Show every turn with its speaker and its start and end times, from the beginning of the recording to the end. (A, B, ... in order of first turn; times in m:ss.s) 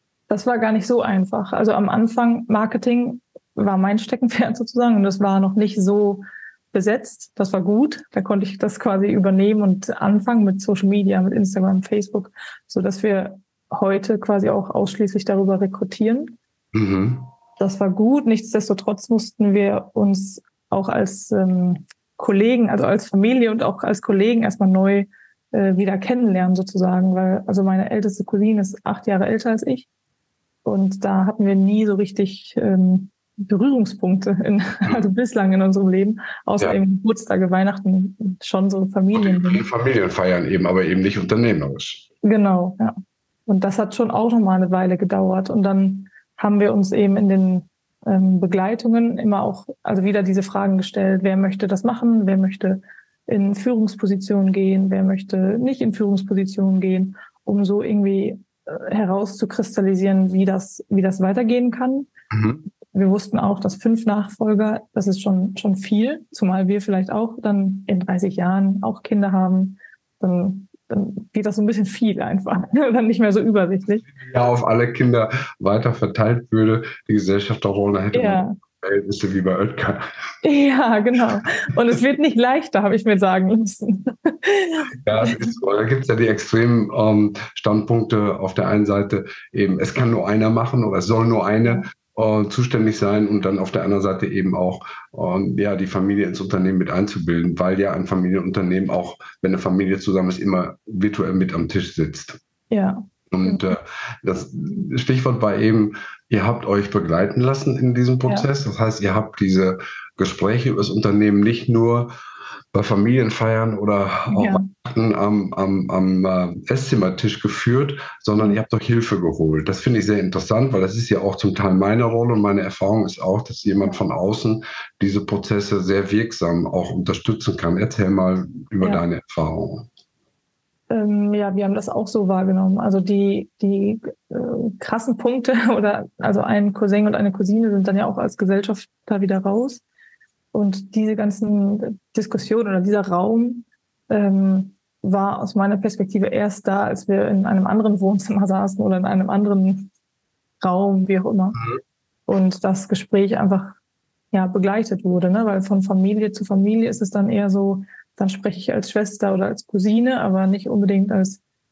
0:00.3-0:16.3 A
0:16.7-0:17.3 B
0:17.6-0:29.9 A
0:30.6-0:39.6 A
0:39.1-0:42.0 B
0:42.2-0:42.9 A
0:43.5-1:02.1 A
1:02.3-1:02.6 B
1:02.9-1:14.0 A
1:14.2-1:20.0 B
1:18.1-1:18.5 A
1:20.4-1:25.5 A
1:25.0-1:42.4 B
1:42.7-1:43.7 A
1:43.3-1:52.1 B
1:52.7-2:09.9 B
1:54.3-1:54.7 A
2:10.9-2:19.8 A
2:20.5-2:29.9 A
2:30.6-2:31.6 A
2:32.3-2:33.8 A
2:34.3-2:41.4 A